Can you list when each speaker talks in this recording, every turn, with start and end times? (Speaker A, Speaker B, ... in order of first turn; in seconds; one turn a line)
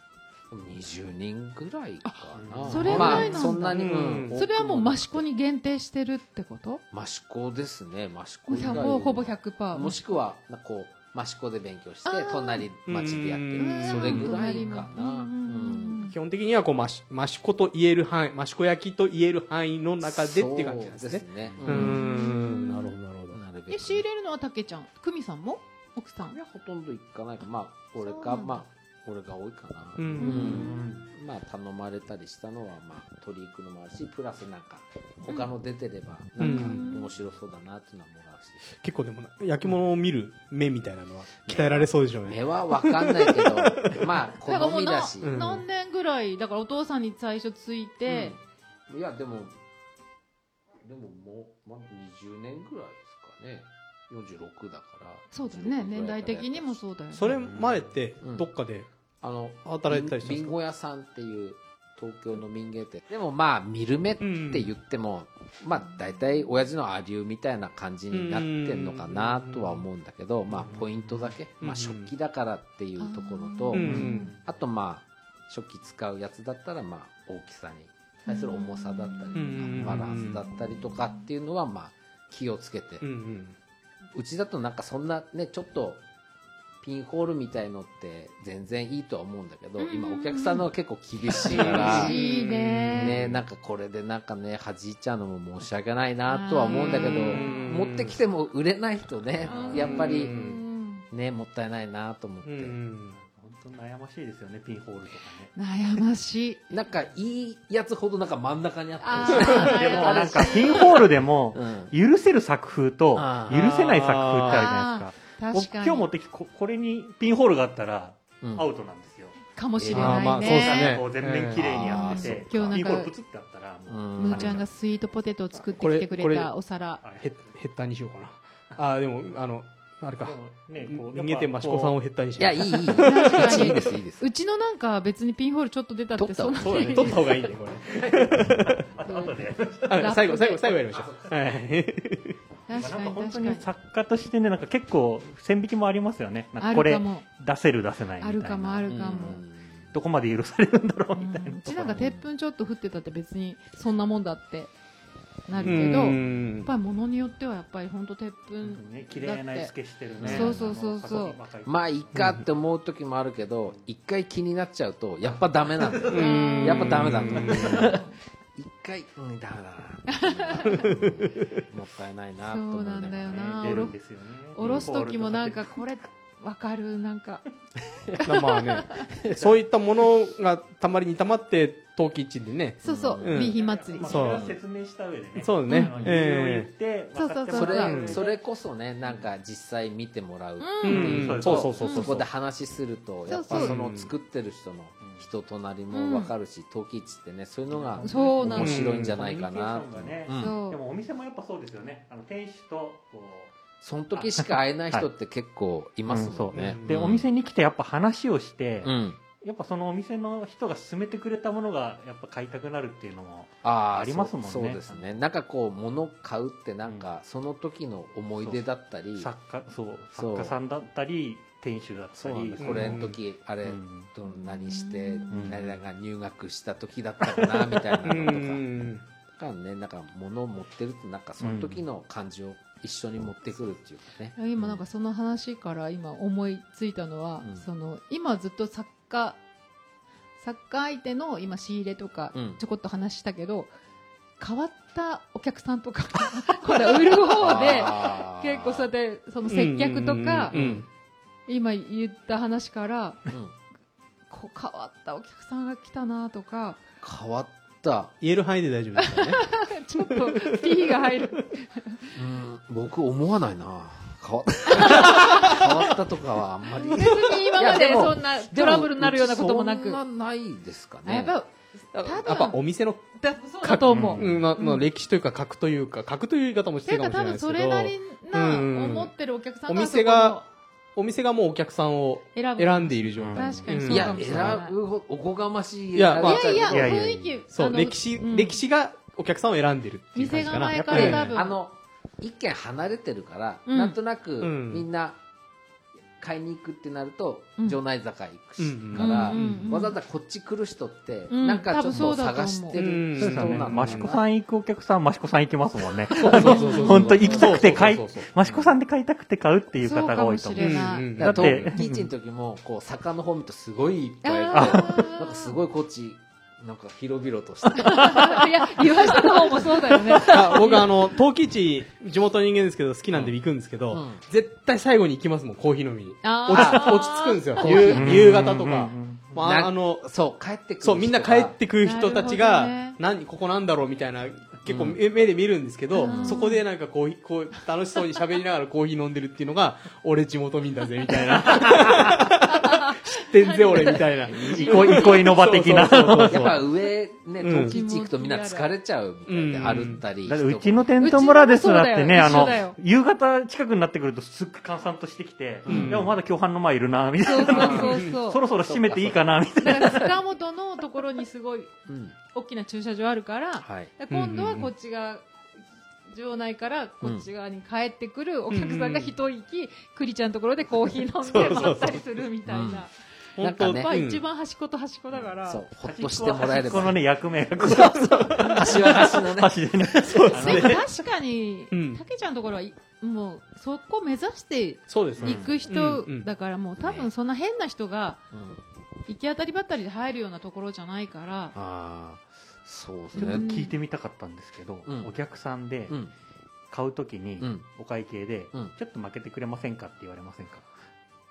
Speaker A: 0.5-4.9
Speaker B: 2.0-6.8
Speaker C: 2.3-3.2
Speaker D: 2.7-5.0
Speaker A: 6.9-16.1
Speaker B: 8.5-10.1
Speaker B: 12.0-12.7
Speaker D: 12.8-14.3
Speaker B: 13.6-16.2
Speaker D: 16.1-23.4
Speaker A: 20.0-22.0
Speaker B: 21.7-22.9
Speaker A: 23.3-24.1
Speaker B: 23.7-26.4
Speaker A: 26.3-38.7
Speaker B: 28.0-28.6
Speaker D: 30.0-30.7
Speaker B: 30.2-30.8
Speaker C: 30.3-31.1
Speaker D: 36.4-36.8
Speaker B: 36.4-37.1
Speaker D: 38.7-44.0
Speaker A: 41.5-45.5
Speaker B: 44.4-48.4
Speaker D: 45.2-45.6
Speaker A: 48.1-49.5
Speaker A: 50.8-56.8
Speaker B: 55.3-57.3
Speaker D: 57.1-58.9
Speaker A: 59.2-83.0
Speaker D: 59.6-60.5
Speaker D: 64.2-64.7
Speaker D: 68.1-69.8
Speaker C: 70.5-71.3
Speaker D: 71.6-72.1
Speaker B: 73.0-74.3
Speaker D: 73.7-74.3
Speaker C: 73.8-74.4
Speaker B: 78.3-80.4
Speaker D: 79.3-80.4
Speaker D: 83.0-83.5
Speaker A: 84.1-86.0
Speaker A: 86.8-92.2
Speaker B: 89.8-90.7
Speaker B: 91.3-93.3
Speaker D: 91.5-93.4
Speaker A: 93.0-100.3
Speaker B: 96.3-97.7
Speaker D: 96.7-98.2
Speaker C: 99.5-100.2
Speaker B: 99.5-101.0
Speaker D: 99.8-100.6
Speaker A: 101.1-102.8
Speaker D: 102.4-103.2
Speaker C: 103.1-105.5
Speaker B: 105.5-106.6
Speaker A: 106.7-111.0
Speaker B: 109.0-111.0
Speaker C: 109.1-119.4
Speaker A: 111.5-111.9
Speaker A: 113.1-113.9
Speaker D: 113.6-114.7
Speaker B: 114.4-116.1
Speaker A: 118.4-118.7
Speaker B: 119.5-121.0
Speaker A: 119.8-120.3
Speaker D: 119.9-121.9
Speaker C: 119.9-124.6
Speaker A: 121.5-123.0
Speaker B: 121.8-123.1
Speaker A: 123.9-124.6
Speaker B: 124.2-127.0
Speaker D: 125.8-126.5
Speaker C: 127.0-127.3
Speaker D: 127.2-133.7
Speaker C: 130.2-132.0
Speaker A: 132.4-134.3
Speaker B: 132.9-137.4
Speaker A: 136.1-137.2
Speaker D: 136.6-138.9
Speaker C: 137.9-140.1
Speaker B: 139.1-140.9
Speaker D: 139.9-142.4
Speaker A: 140.9-141.3
Speaker B: 142.7-143.7
Speaker C: 142.7-149.3
Speaker B: 146.6-147.3
Speaker B: 148.2-149.4
Speaker A: 148.9-149.9
Speaker C: 149.9-152.0
Speaker B: 151.2-154.7
Speaker A: 151.9-152.2
Speaker B: 155.5-161.4
Speaker A: 155.5-156.1
Speaker D: 155.6-156.7
Speaker C: 158.6-162.4
Speaker A: 160.2-160.8
Speaker A: 161.6-168.0
Speaker D: 162.1-162.4
Speaker C: 165.8-168.0
Speaker D: 166.1-167.9
Speaker B: 166.1-168.2
Speaker A: 168.6-173.9
Speaker B: 170.1-170.9
Speaker D: 170.7-171.2
Speaker B: 172.4-173.9
Speaker C: 173.3-175.8
Speaker B: 174.5-177.4
Speaker A: 174.6-174.9
Speaker B: 178.1-179.1
Speaker D: 178.2-184.5
Speaker A: 179.1-179.6
Speaker B: 182.8-184.4
Speaker A: 182.8-183.5
Speaker C: 183.5-188.4
Speaker D: 185.4-186.7
Speaker B: 185.7-185.9
Speaker B: 187.1-188.2
Speaker A: 187.5-200.6
Speaker D: 187.8-188.2
Speaker B: 190.6-192.2
Speaker D: 190.8-191.8
Speaker C: 190.9-192.3
Speaker B: 193.3-193.8
Speaker D: 193.5-194.1
Speaker B: 195.9-196.3
Speaker C: 197.7-203.5
Speaker B: 198.0-198.9
Speaker D: 198.5-199.3
Speaker B: 200.3-200.8
Speaker A: 203.8-207.2
Speaker C: 204.1-205.1
Speaker C: 206.1-215.1
Speaker D: 206.5-207.1
Speaker A: 208.8-209.2
Speaker A: 213.6-219.3
Speaker C: 219.2-223.1
Speaker A: 220.1-220.5
Speaker A: 222.1-228.6
Speaker D: 222.6-223.2
Speaker C: 223.6-224.1
Speaker B: 224.2-225.6
Speaker C: 225.3-225.8
Speaker D: 228.0-229.0
Speaker A: 229.3-234.8
Speaker C: 231.4-231.8
Speaker B: 234.3-239.4
Speaker B: 240.4-243.7
Speaker A: 242.3-242.6
Speaker B: 244.4-250.5
Speaker A: 247.3-248.9
Speaker D: 249.5-250.9
Speaker A: 250.5-250.8
Speaker B: 251.5-253.2
Speaker B: 254.3-256.8
Speaker A: 257.0-258.1
Speaker D: 258.2-259.5
Speaker B: 259.0-262.1
Speaker D: 260.2-260.8
Speaker A: 262.1-271.4
Speaker B: 264.7-265.7
Speaker B: 266.7-270.0
Speaker B: 271.0-272.6
Speaker D: 271.9-273.1
Speaker B: 273.1-274.9
Speaker D: 273.6-279.1
Speaker C: 273.9-274.4
Speaker B: 276.9-280.4
Speaker D: 279.7-280.4
Speaker D: 280.9-284.5
Speaker B: 282.3-284.7
Speaker C: 283.2-284.0
Speaker A: 283.9-287.2
Speaker D: 285.9-286.6
Speaker B: 286.1-288.6
Speaker C: 286.7-287.3
Speaker D: 287.5-291.3
Speaker B: 290.1-291.6
Speaker C: 290.7-291.4
Speaker A: 290.9-295.2
Speaker B: 293.7-293.9
Speaker D: 294.4-294.9
Speaker A: 296.2-304.2
Speaker D: 298.6-299.7
Speaker B: 298.9-299.9
Speaker B: 301.3-302.9
Speaker D: 302.7-304.1
Speaker C: 303.2-312.1
Speaker B: 306.1-307.5
Speaker D: 306.1-308.3
Speaker A: 306.3-308.7
Speaker B: 309.8-311.2
Speaker D: 310.6-311.7
Speaker A: 311.2-320.3
Speaker B: 314.2-315.6
Speaker C: 314.5-314.9
Speaker B: 317.7-321.0
Speaker C: 317.8-318.3
Speaker D: 320.2-330.1
Speaker A: 323.9-324.2
Speaker B: 326.2-327.9
Speaker A: 326.5-327.0
Speaker A: 327.6-328.6
Speaker C: 327.7-329.4
Speaker A: 329.4-331.6
Speaker D: 330.8-346.6
Speaker B: 331.8-333.0
Speaker A: 334.6-335.0
Speaker B: 335.9-336.6
Speaker A: 336.0-336.4
Speaker B: 342.5-345.3
Speaker C: 344.4-346.6
Speaker A: 346.2-350.9
Speaker D: 347.4-347.8
Speaker B: 347.4-348.7
Speaker D: 349.3-350.0
Speaker C: 350.2-360.1
Speaker B: 351.0-352.8
Speaker A: 355.6-356.0
Speaker D: 355.7-356.1
Speaker B: 357.2-358.4
Speaker A: 357.4-358.1
Speaker A: 358.6-359.3
Speaker B: 359.6-361.7
Speaker A: 361.9-362.1
Speaker B: 362.3-365.2
Speaker A: 363.6-363.9
Speaker D: 364.1-364.7
Speaker B: 366.1-372.9
Speaker D: 368.5-369.1
Speaker D: 371.2-372.0
Speaker A: 372.5-372.9
Speaker D: 373.4-374.2
Speaker A: 373.4-373.9
Speaker B: 373.6-375.6
Speaker A: 375.4-377.0
Speaker C: 375.8-380.8
Speaker A: 377.6-380.3
Speaker B: 377.7-378.9
Speaker D: 380.0-380.8
Speaker B: 380.3-388.2
Speaker D: 381.7-382.0
Speaker D: 384.9-386.2
Speaker C: 385.2-385.6
Speaker A: 386.8-387.1
Speaker A: 388.3-388.6
Speaker B: 389.1-391.5
Speaker A: 391.5-393.5
Speaker C: 393.1-396.0
Speaker B: 393.1-393.7
Speaker A: 394.9-395.1
Speaker C: 396.7-400.6